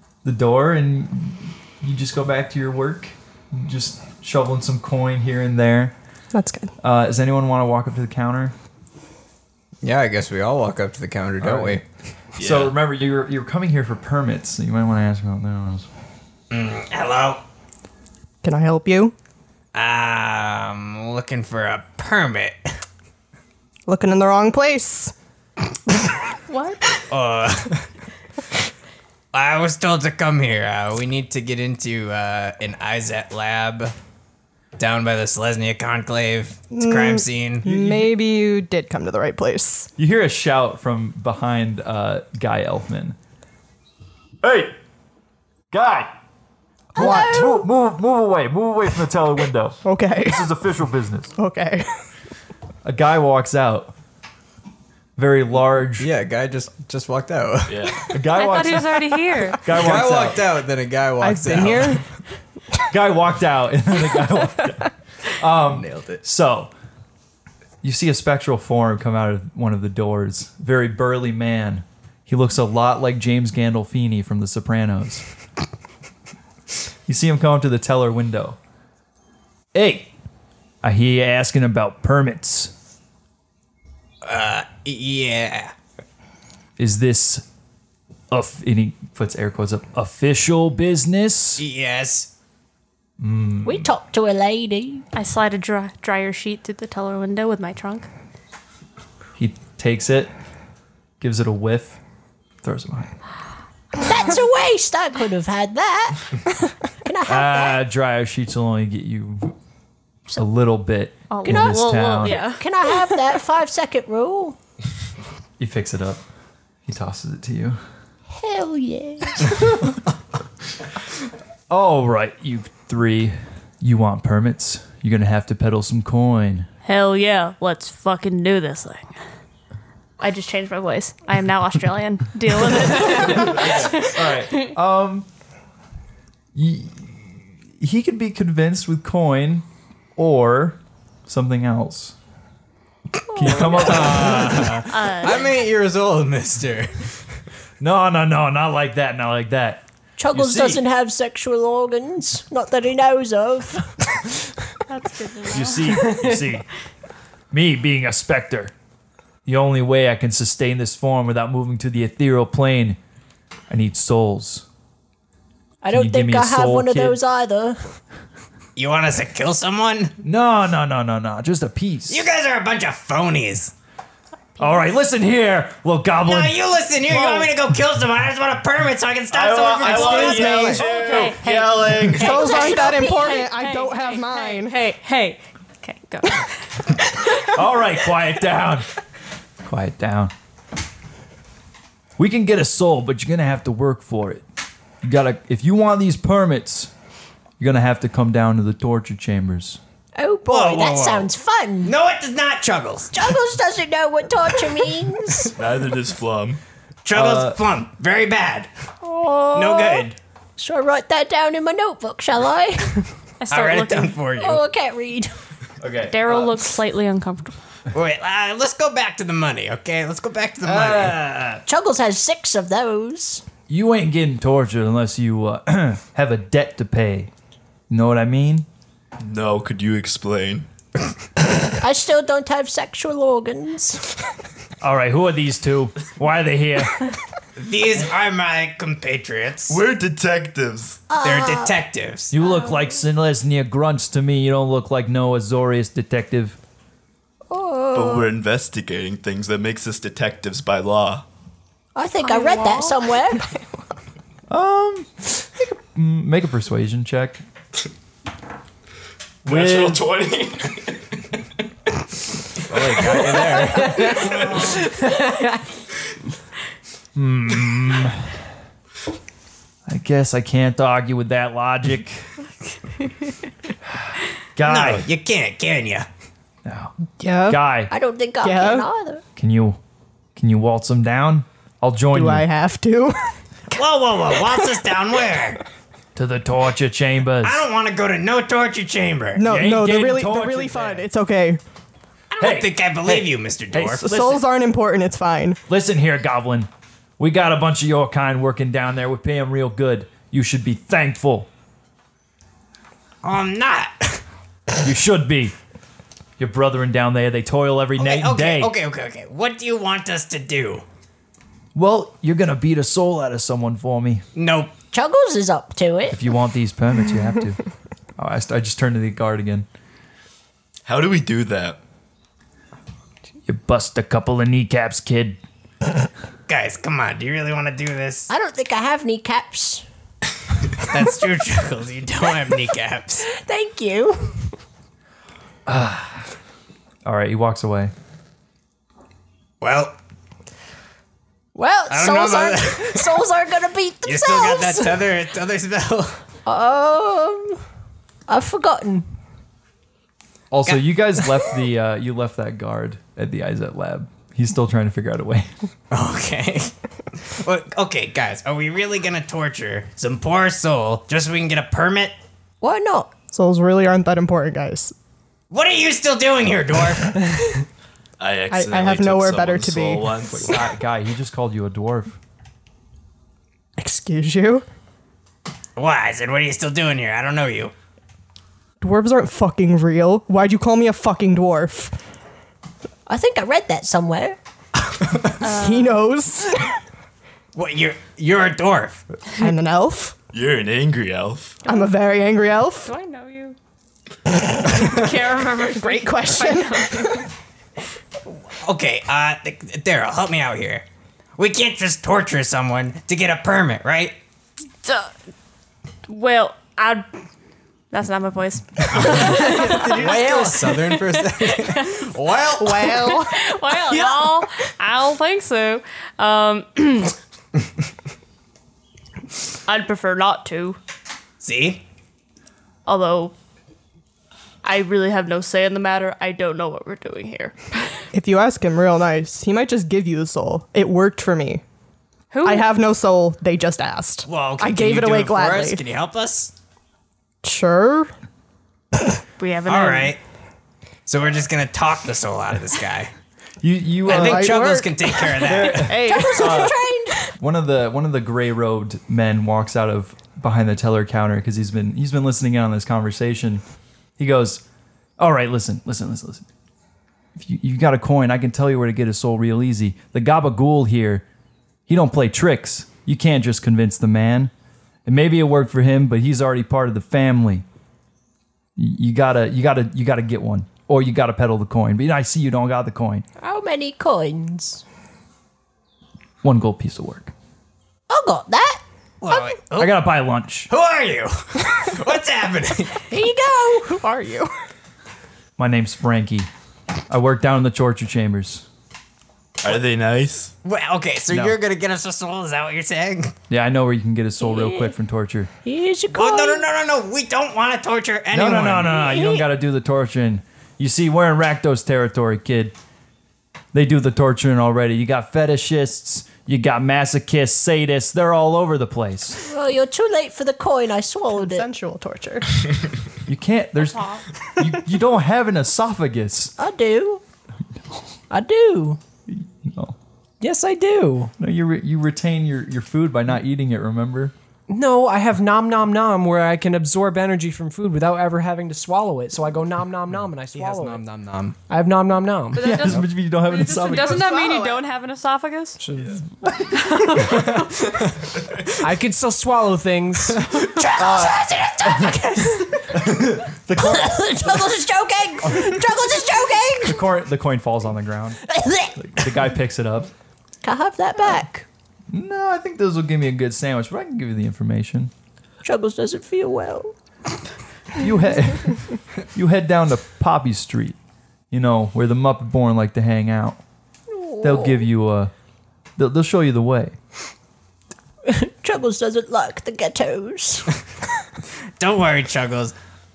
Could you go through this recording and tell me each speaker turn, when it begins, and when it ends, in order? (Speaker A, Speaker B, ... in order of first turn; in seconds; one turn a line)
Speaker A: 0.2-5.9
Speaker B: 6.3-6.7
Speaker A: 6.8-8.5
Speaker C: 9.8-11.8
Speaker A: 11.4-11.8
Speaker D: 12.4-12.7
Speaker A: 12.4-15.9
Speaker E: 16.5-17.4
Speaker B: 18.4-19.1
Speaker E: 19.7-22.7
Speaker B: 23.9-25.1
Speaker B: 26.5-26.8
Speaker E: 27.1-27.9
Speaker E: 29.3-33.9
Speaker E: 34.8-37.6
Speaker B: 36.7-39.9
Speaker A: 37.6-38.1
Speaker A: 40.0-43.1
Speaker A: 44.4-44.8
Speaker A: 45.7-46.1
Speaker F: 47.0-47.5
Speaker B: 47.0-47.6
Speaker A: 47.0-51.3
Speaker B: 49.8-50.5
Speaker B: 51.4-52.0
Speaker A: 52.8-53.9
Speaker A: 55.2-56.1
Speaker C: 56.0-58.0
Speaker D: 57.7-58.0
Speaker A: 58.1-59.0
Speaker G: 58.3-59.6
Speaker A: 59.6-60.4
Speaker C: 59.7-62.0
Speaker B: 61.2-62.0
Speaker A: 62.9-66.7
Speaker C: 65.6-66.2
Speaker A: 67.8-75.2
Speaker A: 77.1-78.6
Speaker A: 79.7-80.1
Speaker A: 80.8-82.7
Speaker E: 84.2-85.7
Speaker A: 86.8-87.4
Speaker A: 88.3-91.6
Speaker E: 91.6-92.3
Speaker A: 93.2-93.9
Speaker F: 93.6-95.0
Speaker G: 95.1-98.1
Speaker A: 99.4-100.3
Speaker A: 101.2-102.0
Speaker A: 102.6-103.1
Speaker F: 104.0-106.4
Speaker F: 107.0-107.8
Speaker A: 107.3-109.5
Speaker A: 110.4-112.4
Speaker G: 111.3-112.6
Speaker F: 111.4-114.6
Speaker A: 115.6-116.2
Speaker A: 116.9-117.8
Speaker F: 118.3-119.6
Speaker A: 121.7-126.7
Speaker G: 126.8-129.1
Speaker G: 130.2-134.3
Speaker A: 132.9-135.3
Speaker A: 136.5-142.1
Speaker F: 143.3-144.5
Speaker A: 143.3-144.7
Speaker C: 143.8-147.1
Speaker E: 144.0-144.8
Speaker G: 144.9-145.6
Speaker A: 147.8-150.8
Speaker F: 150.2-154.2
Speaker G: 154.9-156.2
Speaker A: 155.5-156.7
Speaker A: 157.5-158.7
Speaker A: 159.4-163.0
Speaker A: 163.7-164.7
Speaker F: 165.8-167.8
Speaker A: 165.9-167.2
Speaker E: 168.8-170.1
Speaker A: 170.2-172.3
Speaker E: 172.1-173.7
Speaker A: 174.6-176.6
Speaker E: 176.2-180.9
Speaker D: 179.3-182.4
Speaker B: 180.0-181.1
Speaker C: 180.1-180.8
Speaker G: 180.7-187.4
Speaker B: 182.0-184.8
Speaker F: 182.5-183.1
Speaker A: 187.5-188.9
Speaker A: 189.6-190.3
Speaker A: 192.2-194.4
Speaker A: 195.0-196.9
Speaker A: 197.6-199.8
Speaker F: 200.2-201.9
Speaker E: 200.4-201.3
Speaker E: 201.8-203.3
Speaker F: 203.1-205.6
Speaker D: 205.6-206.6
Speaker E: 207.0-208.7
Speaker A: 207.1-207.6
Speaker F: 209.0-213.0
Speaker E: 209.5-210.2
Speaker G: 213.4-214.1
Speaker E: 213.5-214.6
Speaker F: 214.3-215.3
Speaker A: 215.8-216.5
Speaker G: 216.1-217.6
Speaker E: 217.9-221.6
Speaker A: 220.6-221.6
Speaker F: 221.7-223.4
Speaker A: 223.7-227.3
Speaker A: 227.9-228.7
Speaker D: 229.2-230.7
Speaker F: 231.8-234.1
Speaker A: 234.8-237.1
Speaker E: 237.6-239.8
Speaker D: 239.7-241.0
Speaker F: 241.1-241.8
Speaker E: 241.2-242.3
Speaker A: 242.3-246.6
Speaker F: 242.4-242.9
Speaker F: 247.5-248.3
Speaker D: 247.9-251.2
Speaker F: 251.9-253.4
Speaker G: 252.2-252.9
Speaker A: 254.5-257.4
Speaker A: 259.4-260.1
Speaker D: 259.4-261.0
Speaker C: 262.7-264.4
Speaker D: 263.8-264.7
Speaker A: 267.1-268.4
Speaker A: 269.9-272.3
Speaker A: 274.0-275.1
Speaker E: 274.6-276.1
Speaker A: 276.6-276.9
Speaker B: 277.2-277.6
Speaker A: 277.5-277.9
Speaker F: 277.9-279.2
Speaker B: 278.4-278.9
Speaker A: 279.4-279.8
Speaker A: 280.4-282.5
Speaker B: 282.1-283.3
Speaker E: 283.7-285.6
Speaker A: 286.1-287.7
Speaker E: 287.4-289.5
Speaker B: 289.3-291.6
Speaker A: 289.4-291.1
Speaker E: 292.3-294.1
Speaker A: 292.4-294.4
Speaker B: 294.0-295.6
Speaker A: 295.7-301.5
Speaker E: 303.2-304.2
Speaker A: 304.8-305.5
Speaker A: 306.4-308.7
Speaker E: 307.9-310.8
Speaker A: 311.7-314.2
Speaker E: 314.3-314.7
Speaker F: 314.9-316.2
Speaker A: 316.1-317.6
Speaker A: 318.2-319.6
Speaker D: 320.9-321.8
Speaker A: 323.5-325.4
Speaker E: 326.5-328.3
Speaker F: 328.3-329.8
Speaker E: 330.9-333.3
Speaker F: 333.3-334.4
Speaker A: 335.7-336.3
Speaker A: 337.0-337.9
Speaker E: 339.6-340.0
Speaker F: 341.5-345.1
Speaker E: 341.9-343.2
Speaker E: 344.0-346.2
Speaker F: 346.4-347.6
Speaker F: 348.3-349.1
Speaker A: 350.5-355.5
Speaker E: 355.9-362.2
Speaker F: 362.6-363.1
Speaker B: 363.3-364.9
Speaker E: 365.5-367.2
Speaker D: 368.2-370.5
Speaker B: 368.5-370.3
Speaker A: 370.2-372.2
Speaker B: 373.8-374.6
Speaker E: 375.8-377.7
Speaker B: 378.8-381.9
Speaker F: 383.1-384.4
Speaker G: 385.4-386.0
Speaker B: 385.4-386.7
Speaker E: 387.5-389.0
Speaker B: 389.4-390.1
Speaker D: 390.3-391.6
Speaker G: 391.6-391.9
Speaker B: 391.6-392.9
Speaker G: 392.8-393.6
Speaker G: 394.6-397.2
Speaker B: 395.7-397.3
Speaker E: 398.3-404.2
Speaker G: 404.8-405.1
Speaker G: 406.1-407.1
Speaker G: 407.9-412.1
Speaker C: 408.9-412.8
Speaker E: 410.2-410.5
Speaker B: 412.5-413.4
Speaker G: 412.8-417.1
Speaker G: 419.6-420.8
Speaker E: 421.4-421.8
Speaker G: 422.9-423.3
Speaker G: 424.6-428.0
Speaker B: 428.1-431.6
Speaker G: 432.3-432.7
Speaker B: 432.4-435.8
Speaker E: 434.2-436.5
Speaker B: 437.4-438.1
Speaker G: 439.4-440.2
Speaker E: 439.6-440.2
Speaker E: 441.1-443.1
Speaker A: 443.6-444.8
Speaker B: 444.1-446.7
Speaker E: 444.1-446.0
Speaker A: 445.4-446.7
Speaker F: 445.9-447.2
Speaker A: 447.4-453.6
Speaker A: 454.2-454.6
Speaker A: 455.2-456.5
Speaker A: 457.4-461.2
Speaker A: 461.9-464.5
Speaker A: 465.1-467.6
Speaker A: 468.8-473.2
Speaker F: 473.4-474.8
Speaker A: 476.4-477.3
Speaker F: 478.1-478.8
Speaker E: 479.2-480.0
Speaker A: 479.7-480.7
Speaker E: 480.7-483.0
Speaker F: 483.1-484.0
Speaker B: 483.8-484.5
Speaker A: 485.6-486.5
Speaker A: 487.1-488.6
Speaker D: 489.6-490.5
Speaker E: 490.6-493.3
Speaker A: 491.3-491.6
Speaker A: 493.5-495.5
Speaker F: 494.4-494.9
Speaker F: 495.6-496.6
Speaker E: 496.1-499.4
Speaker A: 498.3-502.7
Speaker A: 503.7-509.4
Speaker F: 509.4-511.7
Speaker B: 511.3-512.5
Speaker A: 513.3-514.0
Speaker G: 513.9-514.2
Speaker A: 514.6-516.5
Speaker F: 516.6-517.2
Speaker F: 518.3-519.0
Speaker A: 519.3-520.0
Speaker H: 520.4-521.3
Speaker A: 521.4-524.3
Speaker H: 524.7-531.0
Speaker C: 530.5-531.6
Speaker H: 531.7-533.0
Speaker G: 532.5-535.8
Speaker A: 532.5-534.3
Speaker B: 533.8-534.8
Speaker H: 535.8-536.2
Speaker G: 536.7-537.9
Speaker H: 538.8-540.5
Speaker F: 540.5-547.0
Speaker A: 541.0-542.1
Speaker A: 542.9-544.6
Speaker A: 546.9-548.4
Speaker F: 548.5-548.9
Speaker A: 549.0-550.1
Speaker F: 550.6-551.6
Speaker A: 552.1-555.1
Speaker F: 555.6-556.9
Speaker A: 558.0-561.0
Speaker A: 561.5-563.6
Speaker F: 564.1-564.9
Speaker A: 564.4-565.3
Speaker A: 566.0-567.0
Speaker F: 568.2-570.6
Speaker E: 571.8-572.7